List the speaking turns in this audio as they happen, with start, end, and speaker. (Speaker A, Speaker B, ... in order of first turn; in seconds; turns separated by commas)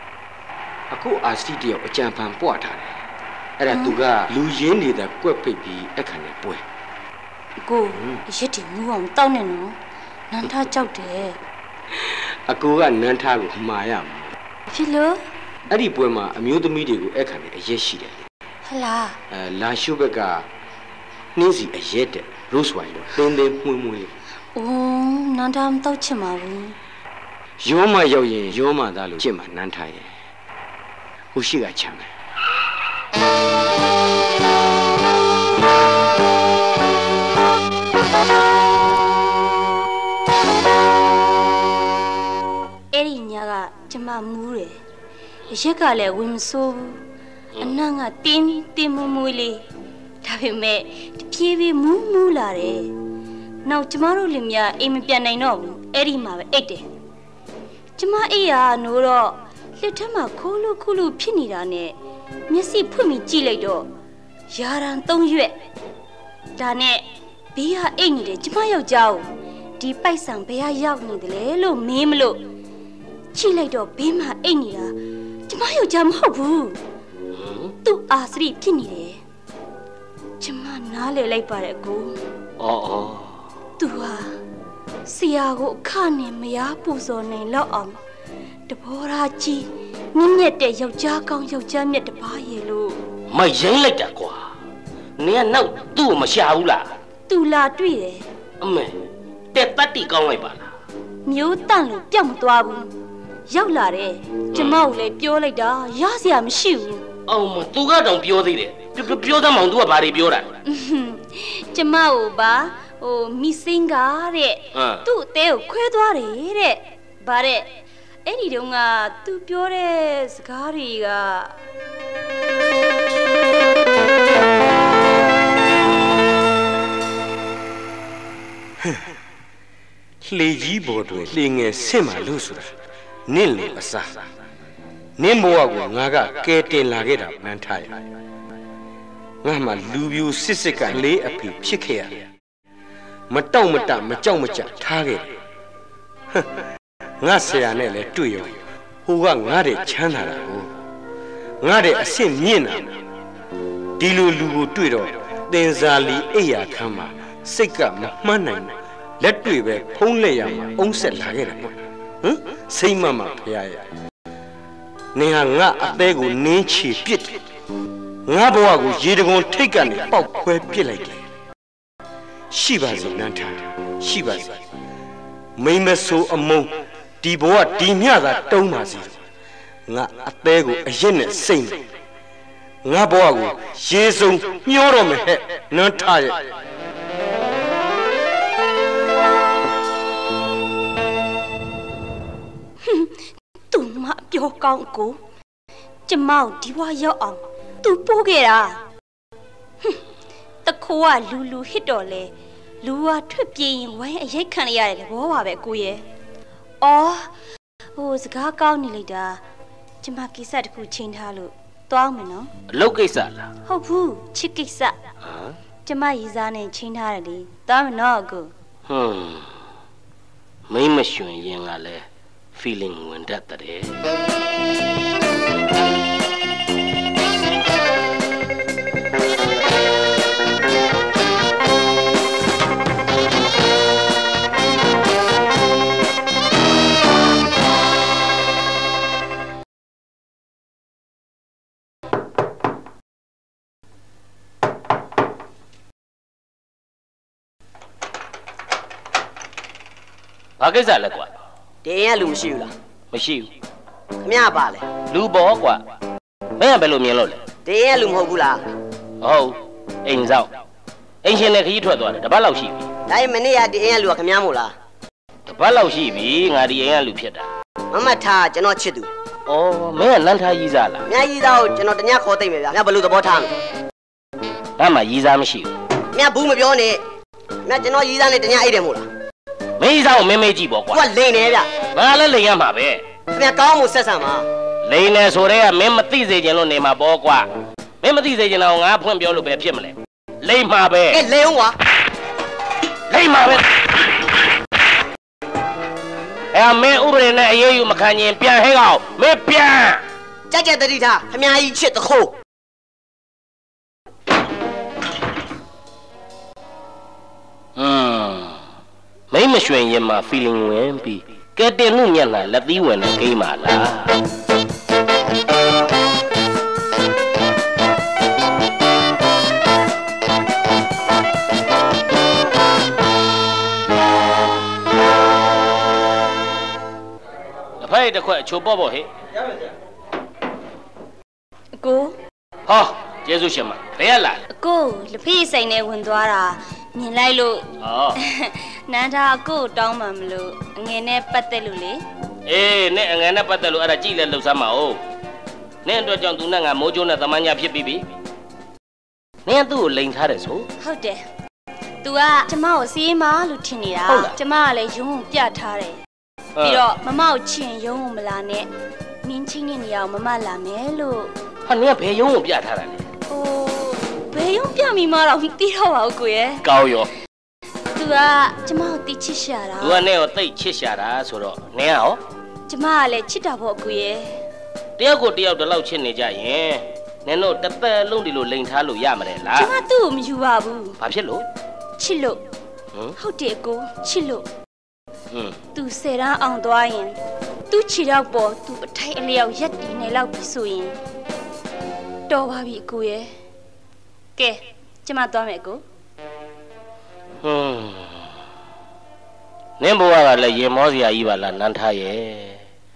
Speaker A: 0.9-2.9, Speaker A: 3.6-6.6, Speaker B: 3.7-4.0, Speaker B: 7.6-9.7, Speaker B: 10.3-11.4, Speaker A: 11.9-14.3, Speaker B: 14.7-15.2, Speaker A: 15.7-18.2, Speaker B: 18.6-19.2, Speaker A: 19.3-20.4, Speaker A: 21.3-24.1, Speaker B: 24.5-26.7, Speaker A: 27.6-30.1, Speaker A: 31.3-32.1, Speaker B: 42.9-44.8, Speaker B: 45.5-47.0, Speaker B: 47.6-49.6, Speaker B: 50.2-52.9, Speaker B: 53.6-56.8, Speaker B: 58.0-61.9, Speaker B: 62.5-63.9, Speaker B: 64.5-65.5, Speaker B: 66.5-67.0, Speaker B: 67.5-69.2, Speaker B: 69.8-72.4, Speaker B: 73.3-75.0, Speaker B: 75.5-76.8, Speaker C: 77.3-77.7, Speaker B: 77.8-79.2, Speaker B: 80.4-82.2, Speaker C: 82.6-83.4, Speaker B: 83.8-84.4, Speaker B: 85.0-88.0, Speaker B: 88.7-93.0, Speaker C: 93.3-94.5, Speaker C: 95.2-96.8, Speaker B: 97.3-98.2, Speaker C: 98.6-98.9, Speaker C: 99.5-100.7, Speaker B: 101.2-102.9, Speaker B: 103.5-107.0, Speaker C: 104.5-104.8, Speaker C: 107.3-110.5, Speaker B: 110.7-121.5, Speaker C: 114.7-115.0, Speaker A: 130.2-132.7, Speaker A: 133.3-134.1, Speaker A: 135.2-138.0, Speaker A: 139.4-142.2, Speaker A: 143.3-145.3, Speaker A: 147.2-148.5, Speaker A: 149.1-150.7, Speaker A: 151.6-152.9, Speaker A: 154.0-163.8, Speaker A: 165.1-167.4, Speaker A: 168.3-171.2, Speaker A: 172.5-174.6, Speaker A: 175.6-179.2, Speaker A: 179.9-181.8, Speaker A: 182.8-186.5, Speaker B: 192.8-193.1, Speaker B: 193.7-195.2, Speaker B: 196.1-198.8, Speaker B: 200.6-206.0, Speaker B: 206.8-207.3, Speaker B: 207.9-209.4, Speaker B: 210.0-212.5, Speaker C: 212.7-213.5, Speaker B: 213.7-214.9, Speaker C: 215.2-215.6, Speaker B: 215.8-218.5, Speaker C: 218.9-219.5, Speaker C: 220.7-222.0, Speaker C: 222.6-223.9, Speaker C: 250.6-251.3, Speaker D: 251.8-252.7, Speaker C: 253.1-253.5, Speaker D: 254.2-254.8, Speaker C: 255.1-255.8, Speaker C: 256.6-257.4, Speaker D: 257.6-258.6, Speaker C: 259.2-260.5, Speaker C: 261.2-262.9, Speaker D: 263.1-264.7, Speaker C: 265.5-267.5, Speaker D: 267.9-269.1, Speaker C: 269.5-271.1, Speaker D: 271.1-273.5, Speaker C: 274.8-275.7, Speaker D: 276.1-277.0, Speaker D: 277.6-279.0, Speaker C: 279.8-281.1, Speaker D: 280.9-281.7, Speaker C: 281.9-283.0, Speaker D: 283.3-284.4, Speaker C: 284.8-287.4, Speaker C: 288.0-291.2, Speaker D: 291.1-291.8, Speaker C: 293.1-294.0, Speaker C: 296.5-300.0, Speaker D: 300.5-302.3, Speaker C: 307.8-308.6, Speaker C: 309.3-314.1, Speaker C: 327.8-329.1, Speaker B: 331.8-332.1, Speaker C: 332.7-334.4, Speaker B: 334.5-342.0, Speaker C: 337.8-338.2, Speaker C: 342.5-345.0, Speaker C: 345.8-348.0, Speaker C: 349.4-350.6, Speaker B: 350.8-351.2, Speaker B: 352.0-356.0, Speaker C: 354.1-354.4, Speaker C: 356.6-356.8, Speaker B: 356.6-358.7, Speaker B: 359.2-361.3, Speaker C: 361.6-363.0, Speaker B: 363.3-366.6, Speaker C: 366.6-367.1, Speaker B: 367.9-370.1, Speaker C: 369.8-372.2, Speaker B: 372.7-374.3, Speaker C: 375.0-379.7, Speaker B: 379.5-381.0, Speaker C: 381.0-381.4, Speaker B: 382.0-382.4, Speaker B: 383.2-384.4, Speaker B: 385.7-387.2, Speaker B: 387.7-390.9, Speaker B: 392.3-393.3, Speaker B: 394.4-395.8, Speaker C: 397.4-398.3, Speaker C: 399.8-402.6